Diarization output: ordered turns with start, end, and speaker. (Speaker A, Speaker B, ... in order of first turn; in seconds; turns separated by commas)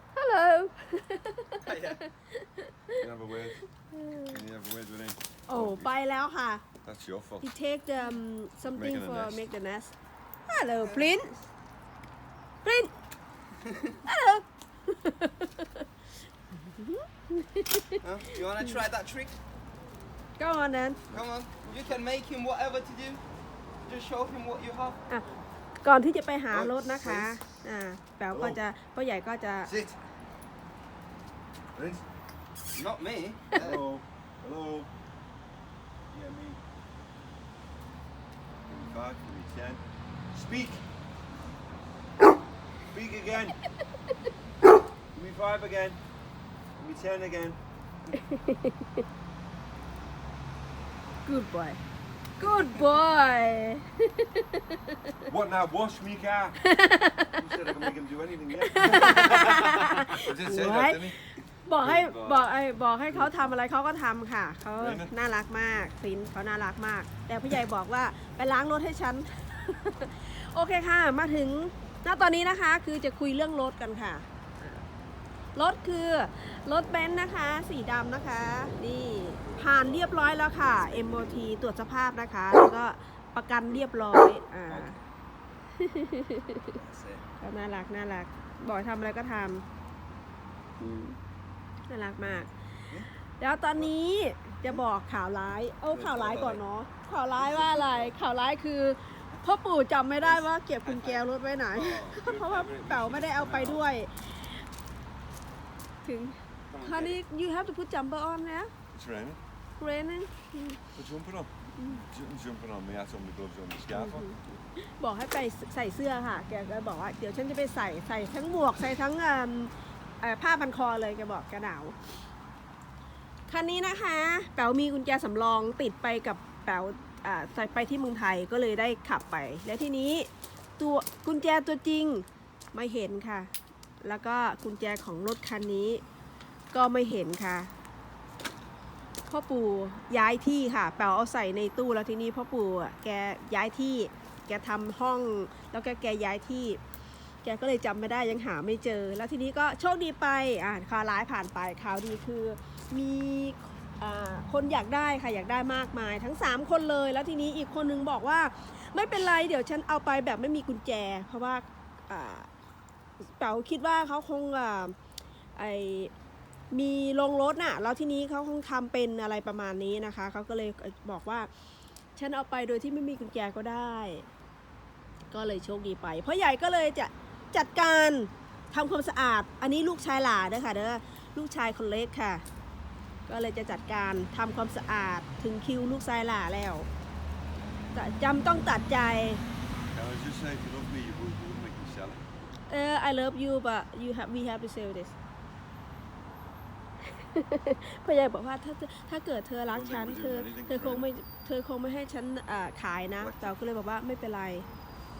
Speaker A: 0.1-3.0, Speaker B: 1.6-2.0, Speaker C: 2.9-5.9, Speaker A: 3.9-4.4, Speaker A: 5.5-6.6, Speaker C: 6.8-7.5, Speaker A: 7.4-9.9, Speaker C: 8.6-9.5, Speaker A: 10.5-11.5, Speaker A: 12.6-12.9, Speaker B: 13.7-13.9, Speaker A: 14.0-15.9, Speaker A: 16.6-18.0, Speaker B: 18.0-19.4, Speaker A: 20.4-21.0, Speaker C: 21.1-22.0, Speaker B: 21.1-23.2, Speaker B: 23.8-25.0, Speaker A: 25.8-29.7, Speaker C: 26.5-27.4, Speaker C: 28.3-28.6, Speaker C: 29.6-30.0, Speaker C: 31.7-32.0, Speaker B: 32.7-33.8, Speaker C: 33.5-34.9, Speaker C: 36.1-36.6, Speaker C: 38.7-39.8, Speaker C: 40.3-40.8, Speaker C: 42.9-43.6, Speaker C: 45.1-46.0, Speaker C: 46.8-47.6, Speaker A: 48.1-48.8, Speaker A: 51.2-51.8, Speaker A: 52.4-55.1, Speaker C: 55.3-56.6, Speaker A: 56.6-57.4, Speaker C: 57.3-61.2, Speaker A: 58.6-74.8, Speaker C: 61.8-62.5, Speaker C: 63.1-63.5, Speaker C: 64.8-65.1, Speaker A: 75.5-84.9, Speaker B: 84.7-85.0, Speaker A: 85.8-86.7, Speaker B: 86.6-87.2, Speaker A: 87.4-89.6, Speaker A: 90.8-91.2, Speaker A: 91.9-92.7, Speaker A: 93.4-104.5, Speaker B: 95.9-96.6, Speaker B: 97.3-98.2, Speaker B: 100.2-103.8, Speaker A: 106.0-108.7, Speaker B: 106.7-107.2, Speaker C: 108.9-109.4, Speaker A: 109.8-110.8, Speaker C: 110.9-114.3, Speaker A: 111.8-112.0, Speaker A: 113.9-122.0, Speaker A: 123.5-133.5, Speaker A: 134.0-136.0, Speaker A: 136.7-137.7, Speaker A: 139.3-146.8, Speaker A: 147.4-162.5, Speaker A: 163.3-164.9, Speaker A: 165.5-166.1, Speaker A: 166.7-171.5, Speaker A: 172.2-174.2, Speaker A: 175.3-182.4, Speaker A: 183.3-186.9, Speaker A: 187.9-189.4, Speaker C: 189.9-192.2, Speaker A: 192.7-195.1, Speaker A: 197.1-204.7, Speaker C: 199.7-201.1, Speaker C: 203.2-203.5